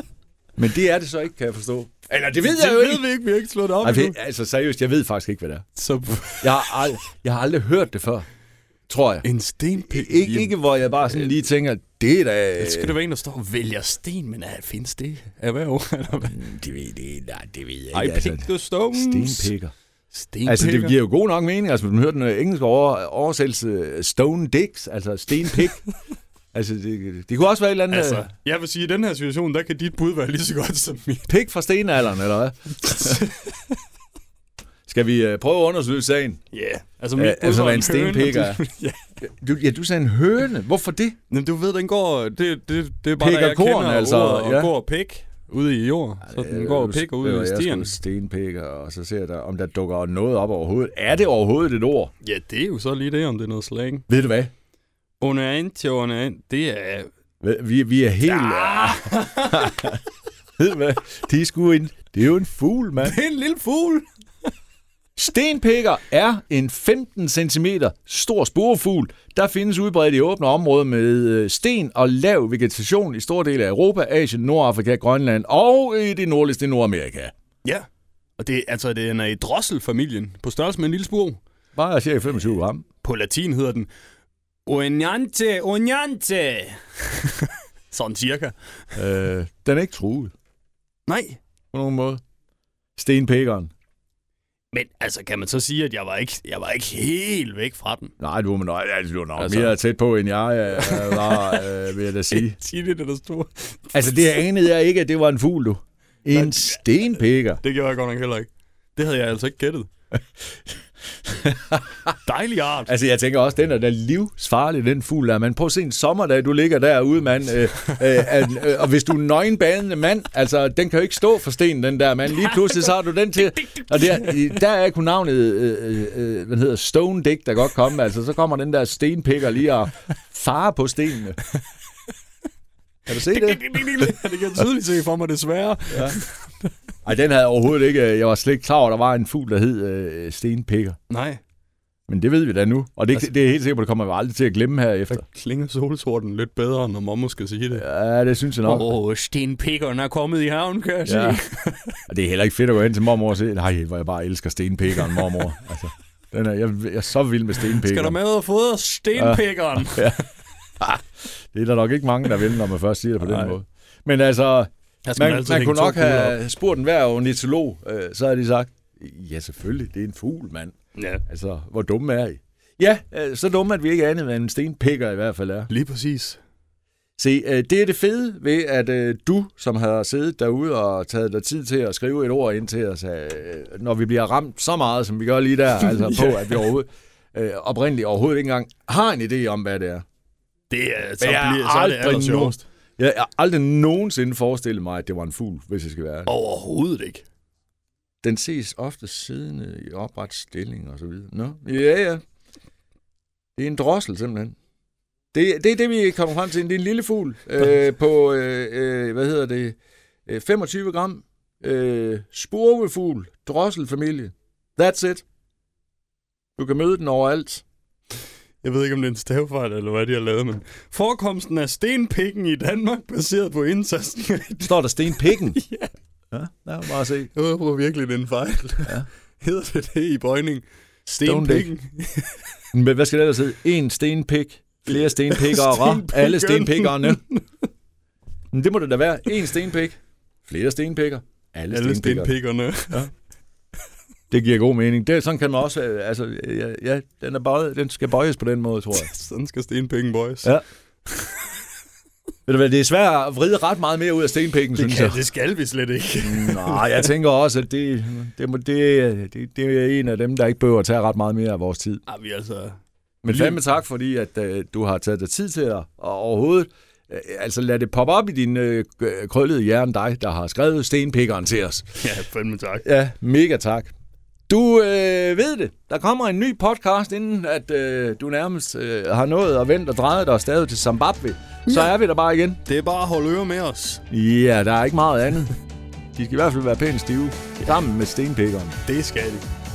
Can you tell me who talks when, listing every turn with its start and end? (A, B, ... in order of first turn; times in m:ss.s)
0:00.6-0:03.0 A
0:02.4-0:04.2 B
0:03.8-0:05.6 A
0:05.8-0:06.8 B
0:06.4-0:08.3 A
0:08.9-0:09.2 A
0:09.2-0:10.5 B
0:09.8-0:12.9 A
0:12.6-0:16.4 B
0:16.3-0:19.7 A
0:17.9-0:19.5 B
0:20.1-0:21.0 B
0:20.4-0:25.8 A
0:26.5-0:28.3 A
0:27.9-0:31.3 B
0:31.3-0:33.2 A
0:32.9-0:33.6 B
0:34.9-0:36.4 A
0:36.5-0:39.0 B
0:37.2-0:38.6 A
0:39.2-0:41.2 A
0:41.3-0:47.9 B
0:43.2-0:44.7 A
0:46.2-0:52.1 A
0:52.2-0:54.0 B
0:54.1-0:54.5 A
0:55.2-0:57.1 B
0:57.4-1:00.0 A
0:58.2-1:00.0 B
1:00.6-1:03.2 A
1:03.0-1:04.0 B
1:05.2-1:17.3 A
1:18.4-1:21.4 B
1:21.7-1:22.8 A
1:23.0-1:23.9 B
1:24.6-1:28.5 B
1:29.0-1:30.3 A
1:31.1-1:31.4 B
1:31.7-1:32.2 A
1:33.0-1:33.7 A
1:34.7-1:38.1 B
1:38.2-1:42.6 A
1:39.4-1:39.8 B
1:40.8-1:44.1 B
1:43.9-1:47.6 A
1:46.3-1:46.8 B
1:47.6-1:49.9 B
1:51.3-1:51.8 A
1:52.2-1:52.9 B
1:52.8-2:11.4 A
2:03.7-2:04.4 B
2:13.1-2:13.6 A
2:13.1-2:16.7 B
2:15.9-2:16.2 A
2:17.0-2:21.0 A
2:21.1-2:21.4 B
2:22.1-2:25.2 A
2:25.1-2:27.8 B
2:27.8-2:28.9 A
2:28.6-2:32.0 B
2:31.0-2:31.4 A
2:32.1-2:38.2 A
2:37.6-2:40.2 B
2:39.2-2:40.2 A
2:40.8-2:50.7 A
2:45.0-2:46.4 B
2:50.9-2:51.2 B
2:51.3-2:55.7 A
2:55.7-2:56.4 B
2:57.2-3:10.0 A
3:10.7-3:12.6 B
3:11.2-3:16.3 A
3:16.3-3:17.2 B
3:18.2-3:22.2 A
3:23.6-3:24.5 A
3:25.3-3:35.2 A
3:36.6-3:37.6 A
3:38.6-3:45.9 B
3:44.6-3:45.6 A
3:46.3-3:47.3 A
3:47.3-3:52.4 B
3:51.2-3:51.7 A
3:52.7-3:57.2 A
3:54.9-3:57.4 B
3:58.5-4:02.3 A
4:01.7-4:03.1 B
4:04.3-4:09.1 A
4:08.9-4:10.5 B
4:12.5-4:15.2 A
4:14.8-4:17.1 B
4:16.2-4:22.0 A
4:22.1-4:23.6 B
4:23.2-4:32.0 A
4:32.0-4:32.8 B
4:32.8-4:33.9 A
4:34.5-4:42.6 A
4:41.6-4:41.9 B
4:42.6-4:44.0 B
4:44.1-4:45.5 A
4:46.1-4:48.8 A
4:48.8-4:49.5 B